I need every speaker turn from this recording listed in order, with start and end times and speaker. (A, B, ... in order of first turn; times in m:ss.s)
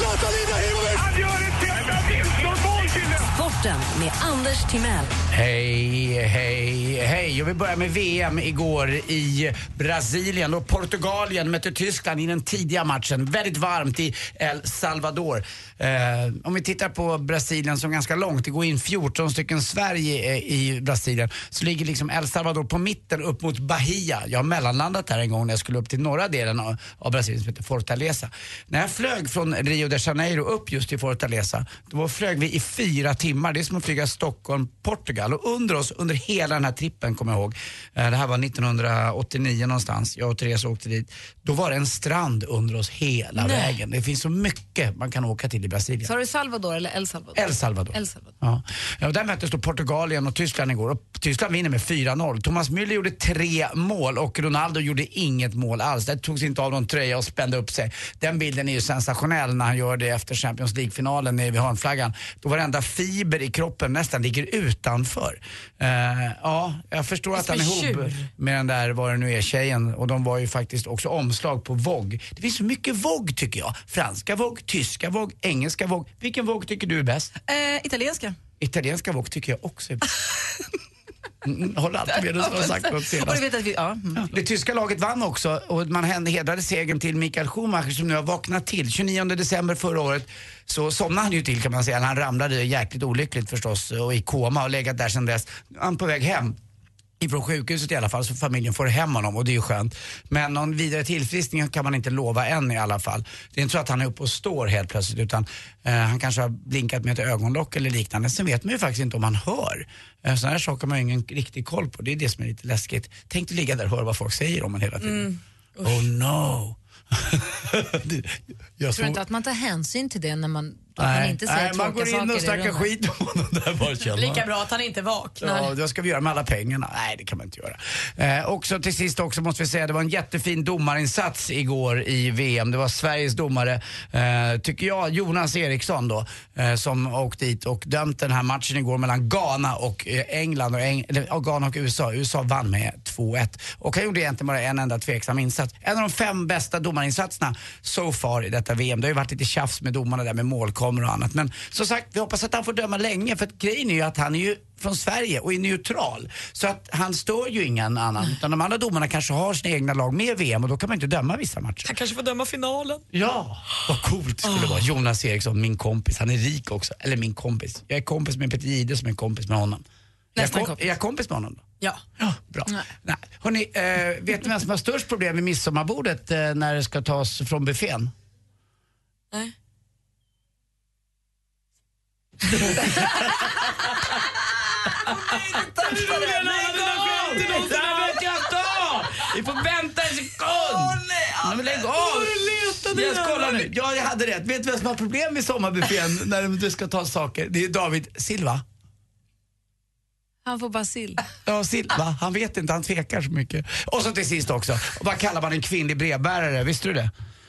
0:03.2-0:05.1 A
0:05.3-0:46.1 B
0:43.4-0:43.8 C
0:46.0-0:48.3 D
0:47.3-1:17.3 B
1:07.4-1:08.3 C
1:17.5-1:18.4 E
1:18.6-1:20.0 B
1:21.4-1:23.4 B
1:22.1-1:24.4 E
1:24.1-1:36.6 B
1:37.2-1:55.3 B
1:55.0-1:56.1 C
1:55.8-1:59.2 B
1:58.9-2:02.9 D
2:01.0-2:04.5 B
2:04.1-2:05.7 C
2:05.4-2:41.9 B
2:41.8-2:43.0 C
2:43.1-2:49.8 B
2:50.4-2:50.9 E
2:50.4-2:51.6 B
2:52.2-2:58.1 B
3:05.0-3:18.6 B
3:05.8-3:06.8 E
3:07.4-3:07.7 E
3:07.4-3:07.8 C
3:10.6-3:11.6 E
3:12.7-3:13.5 C
3:20.4-3:21.2 D
3:21.4-3:27.1 B